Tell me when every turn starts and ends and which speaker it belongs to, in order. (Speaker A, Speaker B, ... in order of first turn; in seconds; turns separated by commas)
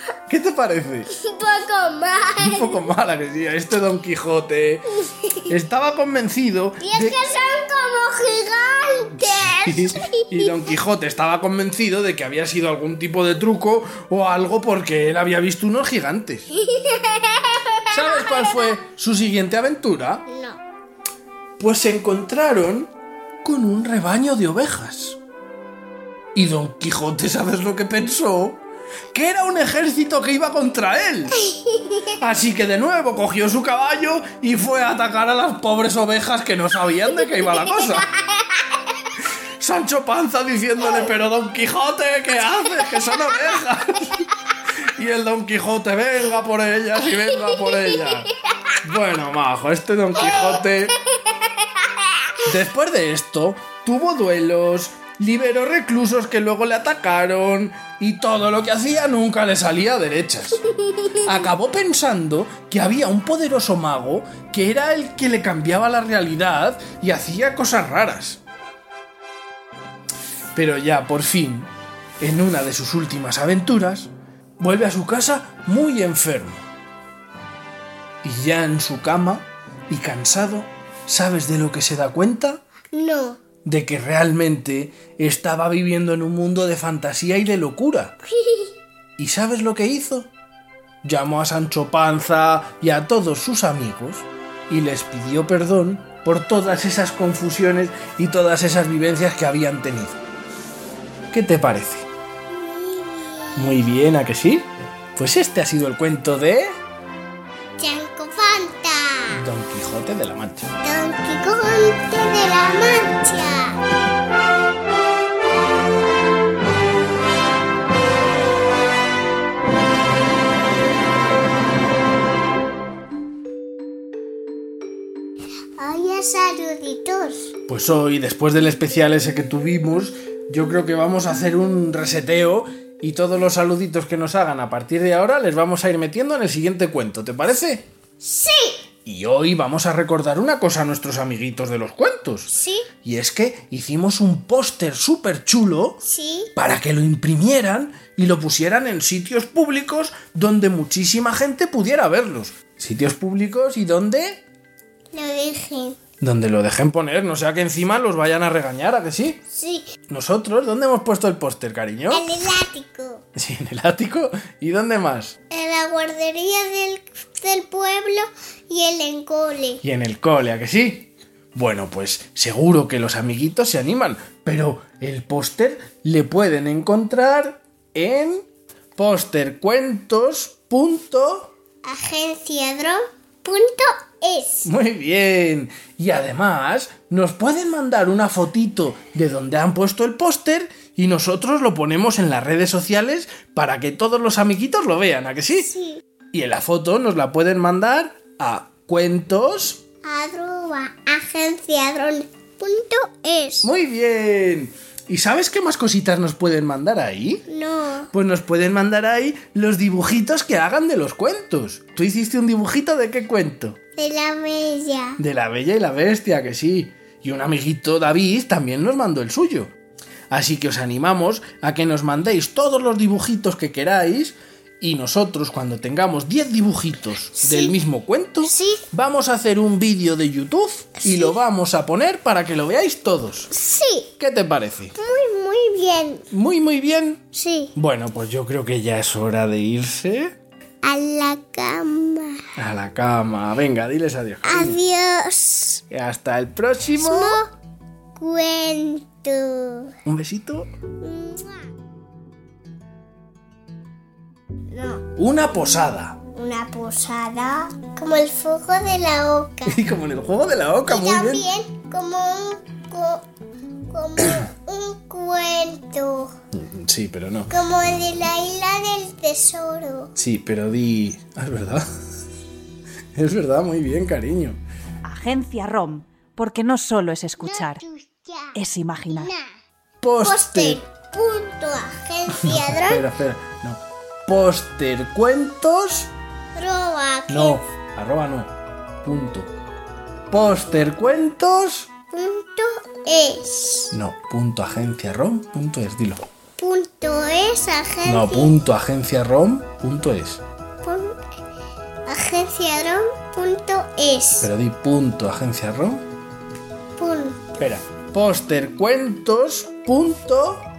Speaker A: 0.3-1.1, Speaker B: 1.1-2.9, Speaker A: 2.4-7.2, Speaker B: 5.0-5.5, Speaker B: 6.8-10.7, Speaker A: 9.3-16.5, Speaker B: 16.5-18.6, Speaker A: 17.9-20.2, Speaker B: 20.3-20.6, Speaker A: 21.6-22.9, Speaker A: 23.4-25.2, Speaker A: 26.4-31.4, Speaker B: 31.4-32.1, Speaker A: 32.1-38.1, Speaker B: 37.7-38.3, Speaker A: 39.6-44.3, Speaker A: 44.8-48.3, Speaker A: 48.8-51.0, Speaker B: 50.2-50.7, Speaker B: 51.4-52.1, Speaker A: 52.4-60.6, Speaker B: 60.7-61.3, Speaker A: 61.2-68.4, Speaker A: 70.5-76.7, Speaker A: 78.2-82.6, Speaker B: 82.9-83.4, Speaker A: 83.7-88.2, Speaker B: 88.3-88.8, Speaker A: 89.2-90.3, Speaker A: 91.0-100.2, Speaker A: 101.3-102.1, Speaker B: 102.5-103.8, Speaker A: 103.6-106.8, Speaker B: 107.8-109.4, Speaker A: 109.3-110.7, Speaker B: 110.8-113.8, Speaker B: 125.8-127.5, Speaker A: 127.7-137.9, Speaker B: 138.2-138.8, Speaker A: 139.1-142.5, Speaker B: 142.5-142.9, Speaker A: 143.0-146.0, Speaker B: 146.0-146.5, Speaker A: 146.6-154.4, Speaker B: 155.1-156.0, Speaker A: 156.2-159.4, Speaker B: 159.5-159.9, Speaker A: 160.1-162.3, Speaker B: 162.1-163.2, Speaker A: 163.3-165.3, Speaker B: 165.5-169.8, Speaker A: 169.8-178.4, Speaker A: 179.0-181.5, Speaker B: 181.8-184.7, Speaker A: 184.7-195.7, Speaker B: 195.6-196.0, Speaker A: 196.3-199.8, Speaker B: 200.0-203.7, Speaker A: 203.6-207.5, Speaker B: 207.5-208.1, Speaker A: 208.1-213.8, Speaker B: 214.0-215.2, Speaker A: 215.2-219.7, Speaker A: 220.3-233.5, Speaker B: 227.4-227.7, Speaker B: 228.4-228.8, Speaker B: 231.0-231.3, Speaker B: 233.5-234.1, Speaker A: 234.2-234.9, Speaker B: 235.0-236.3, Speaker A: 236.3-237.2, Speaker B: 237.3-237.7, Speaker A: 237.8-240.3, Speaker B: 240.8-242.4, Speaker A: 242.6-244.8, Speaker B: 244.4-245.8, Speaker A: 245.9-247.4, Speaker B: 247.0-247.5, Speaker B: 248.2-249.9, Speaker A: 250.1-250.7, Speaker B: 251.0-251.7, Speaker B: 254.7-255.1, Speaker A: 255.2-256.2, Speaker B: 256.3-259.8, Speaker A: 259.6-261.5, Speaker B: 260.9-263.2, Speaker B: 263.9-266.3, Speaker A: 266.5-267.5, Speaker B: 267.5-270.1, Speaker A: 270.2-271.9, Speaker A: 273.1-274.6, Speaker C: 275.1-277.8, Speaker B: 277.4-278.6, Speaker C: 278.6-279.3, Speaker B: 279.1-279.5, Speaker A: 280.0-280.8, Speaker B: 280.2-283.0, Speaker A: 282.4-286.1, Speaker B: 286.6-287.6, Speaker A: 287.3-288.5, Speaker A: 289.0-289.5, Speaker A: 290.3-291.9, Speaker B: 292.1-293.9, Speaker A: 293.9-296.2, Speaker B: 296.6-298.5, Speaker A: 298.1-300.4, Speaker B: 300.8-301.2, Speaker B: 302.1-304.5, Speaker A: 304.4-306.0, Speaker B: 307.0-307.7, Speaker A: 307.6-310.7